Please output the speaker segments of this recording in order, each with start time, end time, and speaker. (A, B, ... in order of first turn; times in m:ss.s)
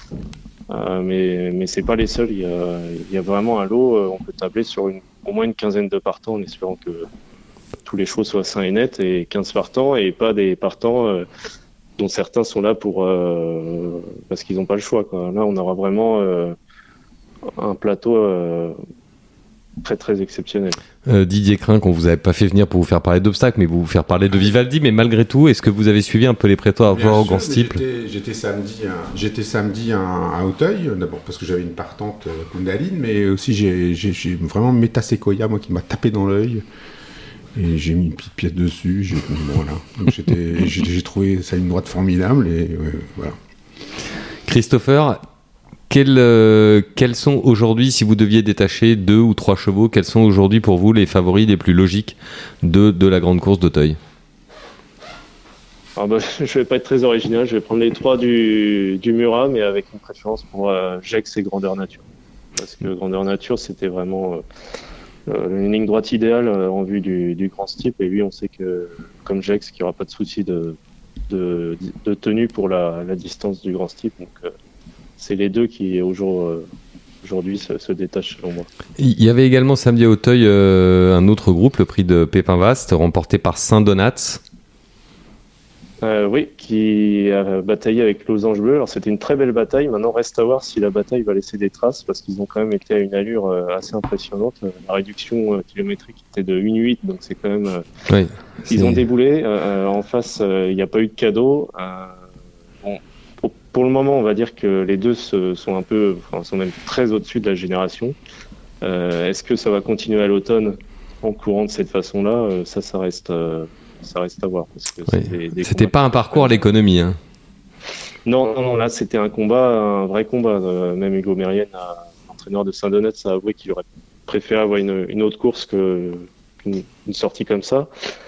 0:00.7-0:07.0 A
0:07.8-0:11.3 A
0:12.0-0:16.6 A
0:17.6-0:18.8 A
0:19.8-0:20.8 A
0:21.0-0:27.8 B
0:26.9-0:36.6 C
0:37.5-0:43.4 C
0:44.4-0:45.2 B
0:45.9-0:54.0 B
0:56.0-1:02.0 A
1:02.6-1:04.4 A
1:05.3-1:10.8 A
1:11.3-1:14.5 A
1:15.2-1:16.6 A
1:17.2-1:18.7 A
1:19.0-1:24.4 B
1:26.0-1:37.8 A
1:38.1-1:39.0 B
1:38.7-1:42.2 A
1:42.8-1:48.1 A
1:48.8-1:56.6 A
1:55.1-1:57.2 B
1:58.2-2:07.9 A